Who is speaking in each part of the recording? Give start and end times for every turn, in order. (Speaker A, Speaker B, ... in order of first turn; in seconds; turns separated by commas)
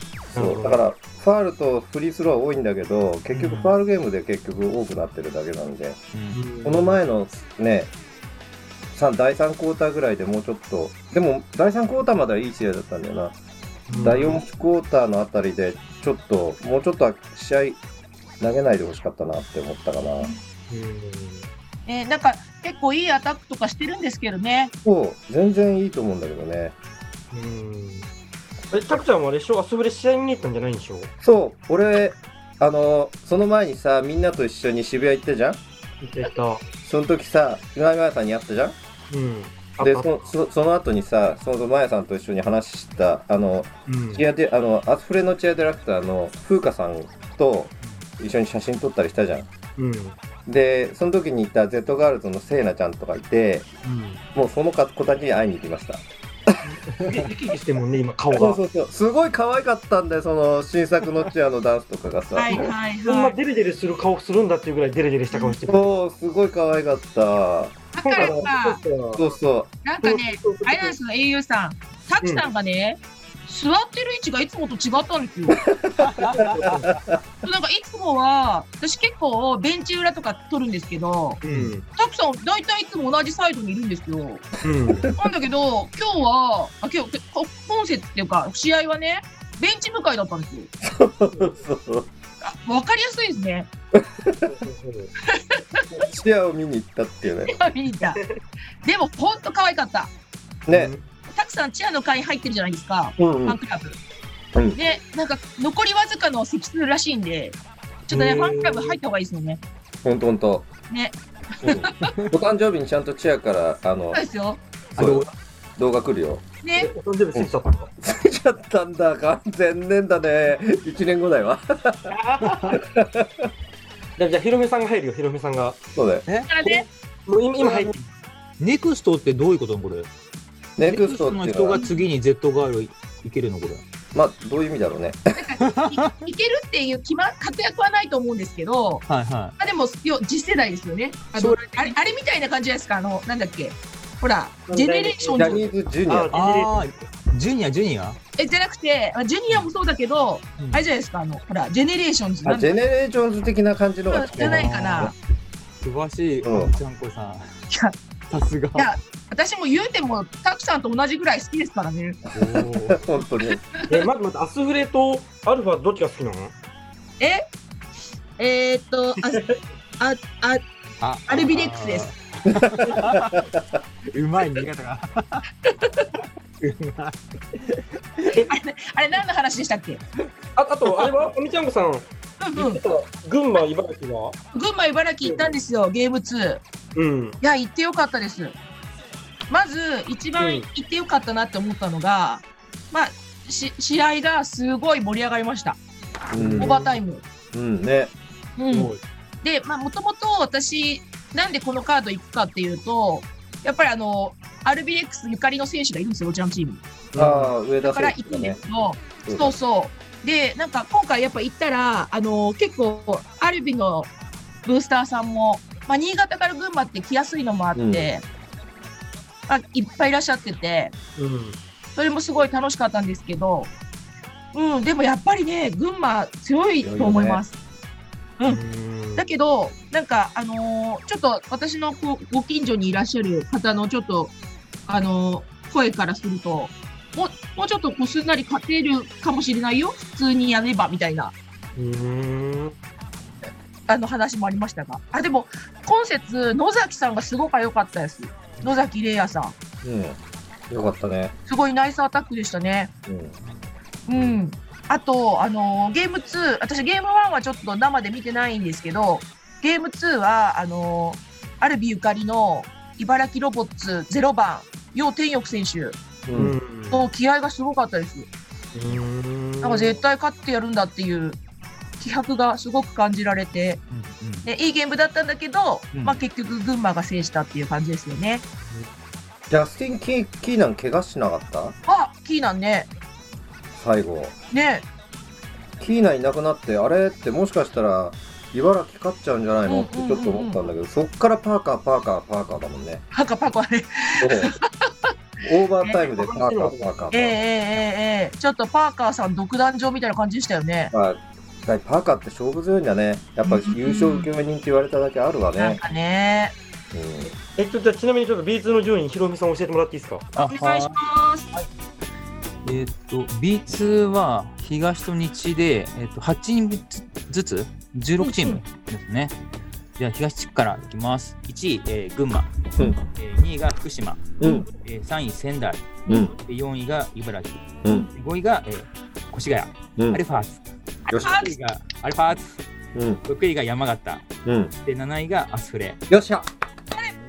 Speaker A: 0.3-0.8, Speaker B: 0.3-6.0, Speaker C: 3.3-3.7, Speaker C: 6.1-6.4, Speaker A: 6.3-7.0, Speaker B: 6.6-7.9, Speaker B: 8.9-13.3, Speaker A: 13.9-14.4, Speaker B: 14.0-17.8, Speaker B: 18.4-20.3, Speaker A: 20.7-21.5, Speaker D: 21.9-24.7, Speaker B: 24.8-26.8, Speaker A: 27.3-28.1, Speaker A: 28.7-31.1, Speaker B: 31.2-35.6, Speaker A: 36.0-36.6, Speaker B: 36.8-38.8, Speaker A: 39.1-40.3, Speaker B: 39.8-49.5, Speaker A: 43.9-44.2, Speaker A: 49.8-50.2, Speaker B: 50.5-53.7, Speaker A: 53.8-54.2, Speaker B: 54.3-56.6, Speaker A: 56.6-58.6, Speaker B: 58.3-62.7, Speaker D: 62.4-63.4, Speaker A: 62.5-66.0, Speaker D: 65.3-65.6, Speaker B: 65.7-68.4, Speaker D: 67.9-68.8, Speaker A: 68.0-69.4, Speaker B: 69.2-69.7, Speaker D: 69.8-75.6, Speaker A: 70.0-71.0, Speaker A: 72.2-72.5, Speaker B: 75.6-77.2, Speaker C: 76.0-77.0, Speaker D: 77.4-81.4, Speaker A: 81.4-81.8, Speaker C: 81.5-81.7, Speaker D: 82.0-84.4, Speaker A: 84.6-85.2, Speaker B: 84.6-85.1, Speaker D: 85.2-90.7, Speaker B: 90.8-92.1, Speaker A: 91.3-91.6, Speaker D: 92.4-93.7, Speaker B: 94.0-94.5, Speaker A: 94.4-95.1, Speaker D: 95.3-95.8, Speaker B: 96.0-97.5, Speaker D: 97.5-98.2, Speaker D: 98.8-100.1, Speaker B: 100.7-100.9, Speaker A: 100.7-101.0, Speaker D: 101.3-104.0, Speaker B: 103.2-103.6, Speaker B: 104.5-104.8, Speaker D: 104.8-109.6, Speaker A: 108.1-109.0, Speaker B: 110.0-110.7, Speaker D: 110.9-112.2, Speaker B: 111.7-114.2, Speaker C: 112.0-112.3, Speaker D: 114.1-114.6, Speaker C: 115.0-115.3, Speaker B: 115.0-115.2, Speaker B: 115.8-116.4, Speaker D: 116.6-116.9, Speaker A: 116.8-117.9, Speaker B: 118.0-122.2, Speaker A: 122.1-122.8, Speaker C: 122.5-122.7, Speaker B: 122.7-123.5, Speaker A: 124.2-125.8, Speaker B: 125.9-126.2, Speaker D: 126.5-126.9, Speaker A: 126.6-127.9, Speaker C: 127.6-128.1, Speaker C: 128.6-130.1, Speaker B: 130.8-131.8, Speaker C: 130.9-133.8, Speaker D: 131.8-132.1, Speaker B: 134.1-135.5, Speaker D: 135.3-139.1, Speaker C: 135.7-136.1, Speaker C: 139.1-139.6, Speaker D: 139.6-145.6, Speaker C: 141.3-142.0, Speaker A: 144.7-147.0, Speaker B: 145.3-146.3, Speaker C: 146.3-148.2, Speaker D: 148.4-152.7, Speaker C: 150.6-150.9, Speaker B: 152.4-155.1, Speaker D: 154.1-155.2, Speaker C: 154.4-155.1, Speaker C: 155.8-157.5, Speaker B: 156.4-156.8, Speaker C: 158.3-158.9, Speaker D: 158.8-162.2, Speaker C: 162.3-163.0, Speaker B: 162.4-163.7, Speaker D: 163.5-163.9, Speaker A: 163.9-166.5, Speaker D: 167.2-167.4, Speaker D: 168.4-169.5, Speaker D: 170.0-170.6, Speaker C: 171.0-173.4, Speaker D: 171.3-172.1, Speaker B: 172.5-173.6, Speaker C: 174.1-175.4, Speaker D: 175.7-176.1, Speaker C: 176.6-178.3, Speaker D: 178.3-180.0, Speaker A: 180.6-184.4, Speaker D: 182.4-182.8, Speaker D: 184.5-186.6, Speaker A: 185.2-185.6, Speaker A: 186.9-187.4, Speaker D: 187.4-188.6, Speaker D: 189.5-195.8, Speaker A: 190.4-190.7, Speaker B: 196.3-196.8, Speaker A: 196.3-197.0, Speaker D: 196.6-197.2, Speaker B: 197.5-198.1, Speaker D: 198.6-198.9, Speaker A: 198.7-199.0, Speaker D: 199.4-206.8, Speaker A: 207.1-207.6, Speaker B: 207.2-208.6, Speaker D: 207.8-214.1, Speaker B: 209.2-209.6, Speaker D: 214.7-218.2, Speaker B: 217.8-218.1, Speaker D: 219.5-220.9, Speaker A: 221.2-221.6, Speaker D: 222.0-223.7, Speaker D: 224.5-227.5, Speaker B: 226.8-227.4, Speaker A: 228.4-229.3, Speaker D: 229.2-234.3, Speaker D: 234.9-241.3, Speaker A: 241.8-242.8, Speaker D: 243.9-249.5, Speaker B: 249.8-250.2, Speaker B: 250.7-251.3, Speaker D: 251.5-252.9, Speaker B: 253.1-253.3, Speaker D: 254.1-266.0, Speaker B: 254.1-254.4, Speaker A: 266.3-267.1, Speaker B: 266.3-266.6, Speaker D: 266.9-268.3, Speaker A: 268.7-270.0, Speaker D: 269.6-271.4, Speaker D: 272.0-273.8, Speaker C: 273.9-274.5, Speaker D: 274.4-278.4, Speaker C: 275.9-276.2, Speaker A: 278.6-278.9, Speaker B: 279.5-281.8, Speaker D: 281.9-282.9, Speaker B: 283.7-284.3, Speaker D: 284.5-284.9, Speaker B: 285.8-293.0, Speaker D: 289.7-290.6, Speaker D: 293.1-294.7, Speaker B: 294.2-294.5, Speaker B: 295.4-297.4, Speaker A: 295.9-297.1, Speaker D: 297.1-300.9, Speaker B: 300.9-305.8, Speaker D: 303.4-304.3, Speaker D: 305.6-306.6, Speaker B: 306.9-307.3, Speaker A: 307.2-310.3, Speaker C: 310.4-311.0, Speaker D: 310.4-311.5, Speaker C: 312.6-319.4, Speaker D: 318.2-318.6, Speaker C: 320.0-322.5, Speaker C: 323.1-330.6, Speaker B: 324.4-324.7, Speaker D: 324.4-324.7, Speaker B: 326.1-326.3, Speaker B: 327.8-328.1, Speaker B: 330.0-330.2, Speaker D: 331.1-331.5, Speaker B: 331.1-331.4, Speaker C: 331.2-332.6, Speaker B: 332.9-333.2, Speaker C: 333.3-334.3, Speaker B: 334.4-334.7, Speaker C: 334.9-336.0, Speaker B: 336.1-336.5